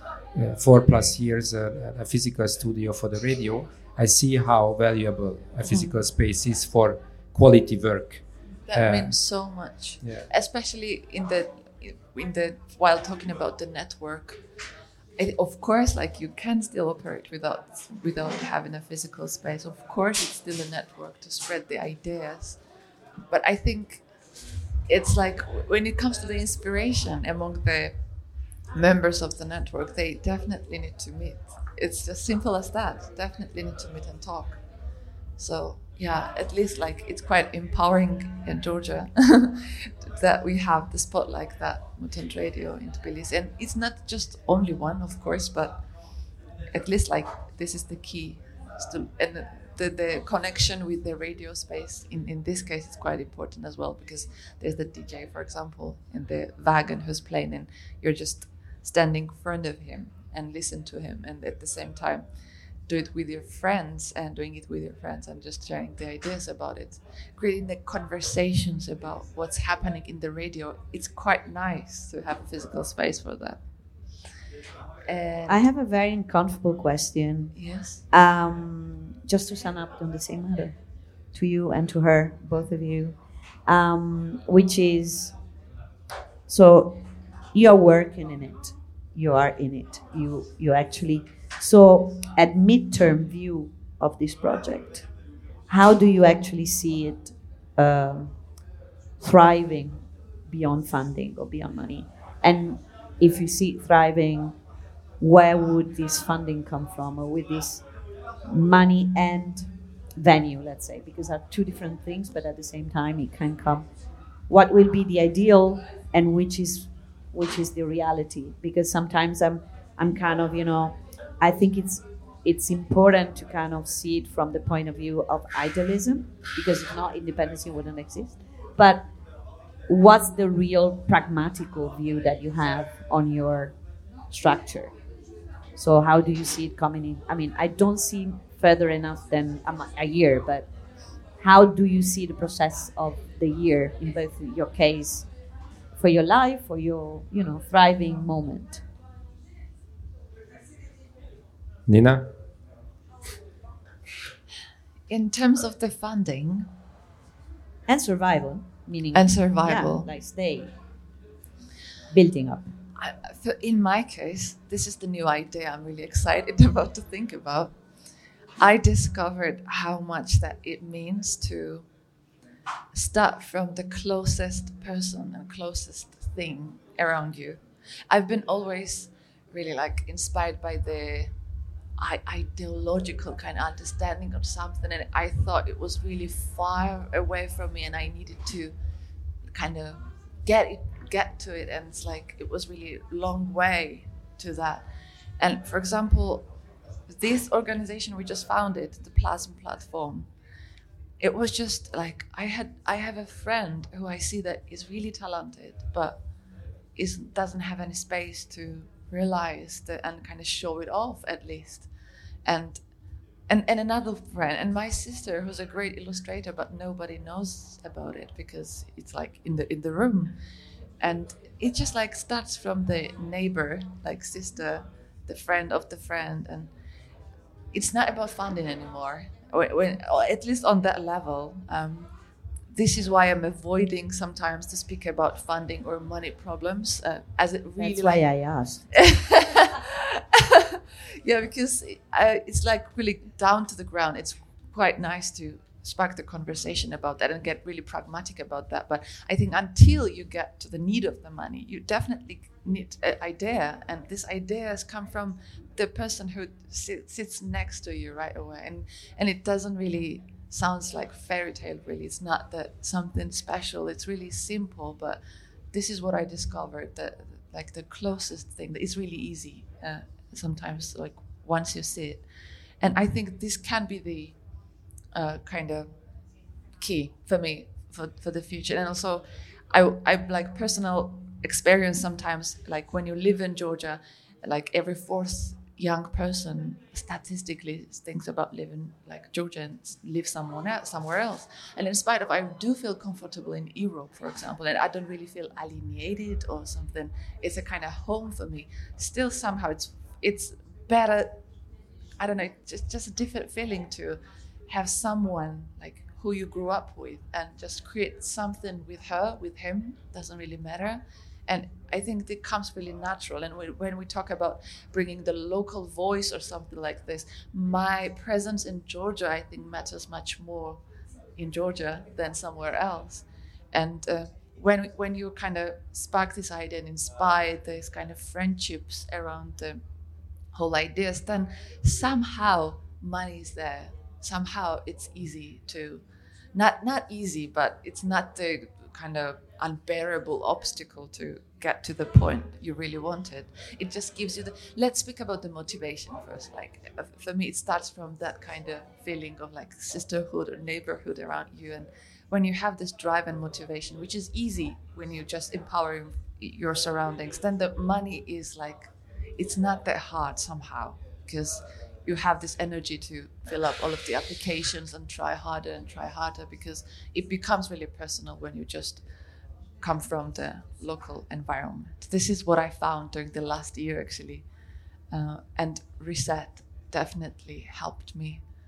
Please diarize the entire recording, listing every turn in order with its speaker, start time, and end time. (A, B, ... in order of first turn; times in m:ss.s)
0:00.3-0:09.1 A
0:05.7-0:05.9 B
0:08.7-0:14.4 C
0:10.0-0:10.3 A
0:15.2-0:22.6 C
0:23.3-0:24.0 C
0:24.9-0:28.0 C
0:28.7-0:34.6 C
0:35.4-0:45.8 C
0:46.7-1:02.3 C
1:02.9-1:13.6 C
1:15.1-1:15.7 C
1:15.5-1:17.5 B
1:17.6-1:18.0 C
1:18.1-1:20.8 B
1:21.3-1:23.2 B
1:23.7-1:25.3 B
1:26.5-1:35.1 B
1:35.7-1:38.3 B
1:39.2-1:44.6 B
1:45.2-1:47.8 B
1:48.5-1:53.9 B
1:54.5-2:09.1 B
2:09.9-2:13.8 B
2:14.3-2:14.9 B
2:15.8-2:20.7 B
2:21.4-2:25.3 B
2:26.0-2:28.8 B
2:31.9-2:32.3 A
2:35.1-2:36.7 C
2:37.9-2:40.7 B
2:39.1-2:40.1 C
2:42.1-2:42.7 B
2:43.0-2:47.8 C
2:48.6-2:51.9 C
2:52.9-3:01.3 C
3:02.0-3:08.8 C
3:09.5-3:14.9 C
3:15.4-3:16.5 C
3:17.1-3:20.3 C
3:21.2-3:26.2 C
3:27.0-3:31.9 C
3:32.4-3:32.8 C
3:33.5-3:40.4 C
3:41.0-3:46.7 C
3:47.7-3:52.1 C
3:52.7-3:58.3 C
3:57.8-3:58.8 B
3:58.9-4:25.2 C
4:25.7-4:32.2 C
4:32.8-4:34.4 C
4:35.1-4:35.9 C
4:36.8-5:01.4 C
5:02.2-5:20.8 C
5:21.4-5:29.8 C
5:30.5-5:36.0 C
5:36.5-6:09.0 C
6:09.8-6:14.5 C
6:15.1-6:18.4 C